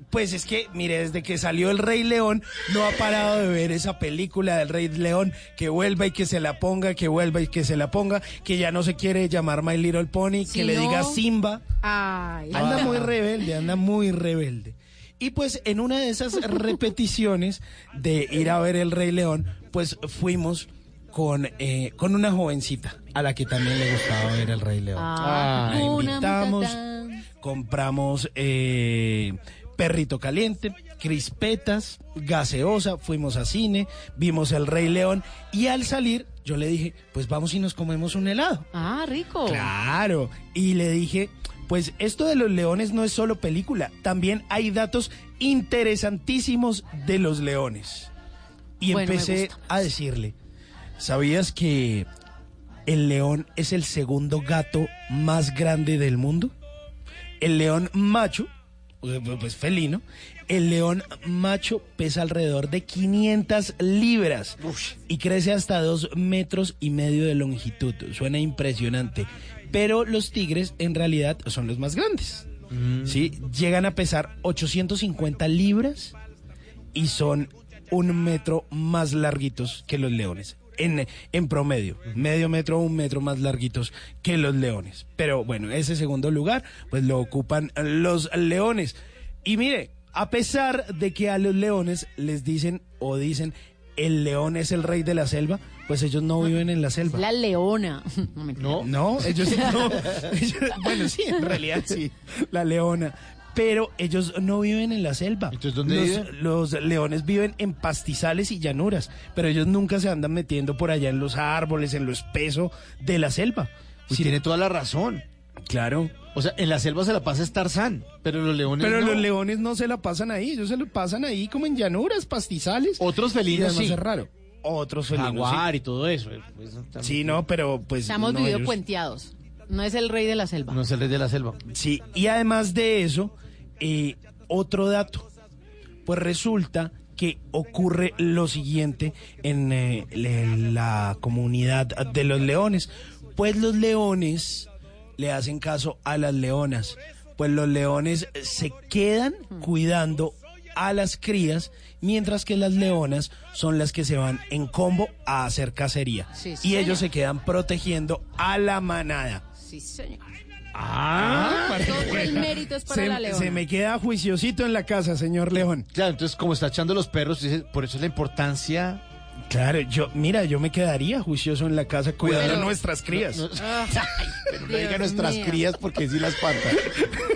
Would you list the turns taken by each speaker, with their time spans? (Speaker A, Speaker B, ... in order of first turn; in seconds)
Speaker A: 0.1-11.6, 12.5-25.1, 25.6-26.8, 27.4-38.6, 39.5-48.1, 48.8-50.3, 51.0-52.1, 52.9-56.5, 57.4-58.5, 59.0-76.1, 76.9-97.2, 98.8-114.3, 115.7-116.2, 118.8-125.7, 127.0-128.8, 131.7-135.3, 136.0-159.4, 161.1-165.9, 169.5-173.4
Speaker B: 10.5-11.2, 11.8-13.0, 24.9-27.2, 38.7-39.7, 48.9-49.6, 97.1-99.8, 128.1-130.8, 156.3-157.0, 159.6-160.2, 161.3-163.6, 172.3-172.7, 173.6-174.0, 174.6-175.7
Speaker C: 12.5-13.1, 25.2-26.0, 64.6-65.0, 72.7-73.3, 98.5-100.3, 105.5-106.3, 114.1-115.2, 116.3-119.3, 123.0-124.0, 125.1-127.4, 130.7-131.6, 160.7-162.3, 165.9-169.0, 172.2-176.9